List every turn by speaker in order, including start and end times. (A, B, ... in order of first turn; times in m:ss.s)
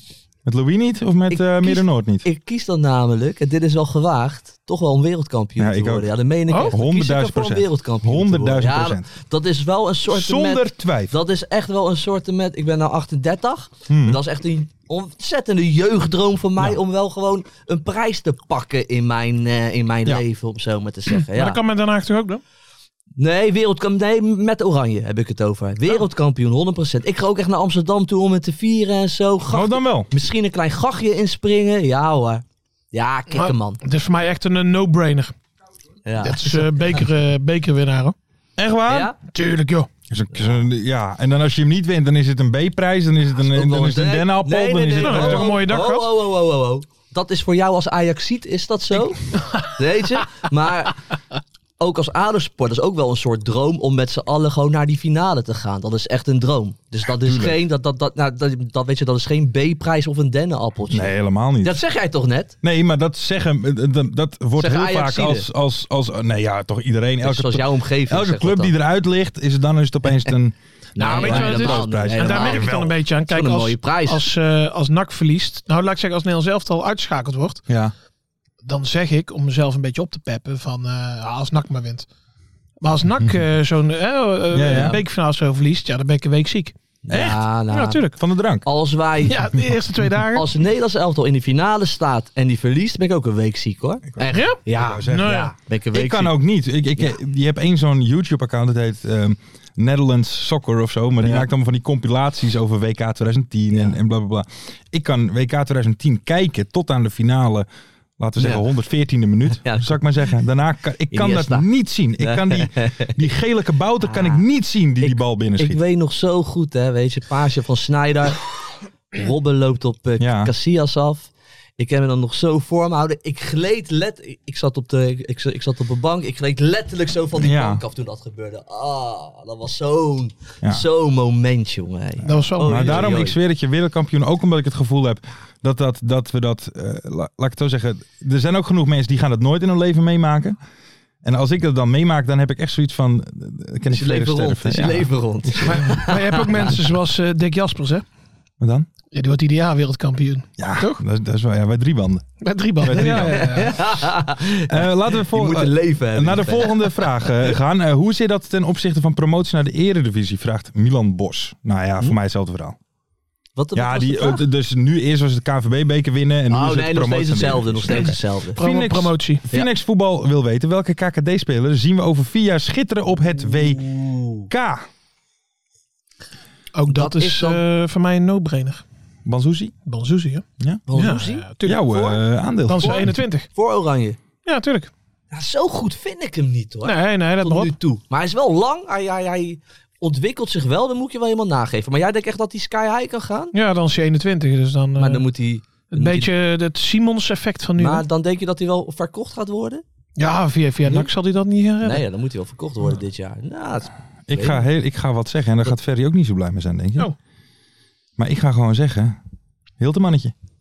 0:00.4-0:02.2 A
0:01.3-0:21.6 B
0:05.6-0:09.1 A
0:10.1-0:11.1 A
0:13.9-0:14.2 A
0:21.2-0:22.4 C
0:23.2-0:33.8 B
0:29.5-0:30.1 A
0:33.3-0:35.3 C
0:36.0-0:36.8 B
0:36.2-0:38.1 C
0:38.6-0:39.1 A
0:38.9-0:39.2 B
0:39.2-0:39.9 C
0:40.1-0:45.6 A
0:40.4-0:40.6 B
0:43.4-0:51.0 B
0:45.0-0:46.1 C
0:51.8-1:02.5 B
0:57.1-0:57.6 A
1:00.9-1:01.8 A
1:02.6-1:13.0 A
1:04.6-1:05.5 B
1:07.2-1:08.7 B
1:11.0-1:12.8 B
1:11.0-1:17.6 C
1:13.3-1:14.3 B
1:17.7-1:17.9 A
1:18.6-1:22.1 C
1:22.8-1:26.7 C
1:24.5-1:25.0 A
1:24.7-1:25.0 B
1:27.1-1:28.0 B
1:27.1-1:27.4 A
1:27.7-1:28.2 C
1:28.2-1:28.6 A
1:28.6-1:29.5 B
1:29.3-1:30.5 C
1:30.3-1:36.3 B
1:34.1-1:47.7 A
1:34.3-1:35.5 C
1:43.7-1:44.0 B
1:48.2-1:55.8 A
1:48.4-1:48.6 B
1:49.5-1:50.0 B
1:51.1-1:51.7 B
1:52.2-1:53.2 B
1:54.0-1:54.4 B
1:55.0-1:58.4 B
1:59.1-2:13.4 B
2:00.2-2:00.5 A
2:07.3-2:07.8 A
2:12.2-2:13.1 C
2:12.6-2:20.6 A
2:21.2-2:26.0 A
2:23.9-2:26.8 B
2:25.6-2:28.0 C
2:28.6-2:28.9 A
2:29.1-2:31.0 C
2:30.6-2:33.5 A
2:32.4-2:34.0 C
2:32.9-2:37.5 B
2:34.7-2:42.8 A
2:43.6-2:44.4 B
2:43.7-2:53.8 A
2:46.5-2:48.6 B
2:47.9-2:49.4 C
2:53.6-2:54.5 B
2:54.5-2:54.9 A
2:56.7-2:58.8 C
2:56.9-2:57.6 B
2:59.2-2:59.7 A
2:59.8-3:03.5 C
3:00.9-3:02.0 B
3:01.6-3:03.2 A
3:03.5-3:04.2 B
3:04.4-3:04.9 C
3:05.3-3:13.5 B
3:06.8-3:07.7 C
3:13.5-3:15.2 C
3:15.0-3:16.3 B
3:15.9-3:18.0 C
3:17.8-3:19.8 B
3:20.2-3:22.0 C
3:20.8-3:21.1 B
3:21.8-3:24.6 B
3:24.3-3:27.1 A
3:28.2-3:29.2 A
3:29.8-3:30.3 A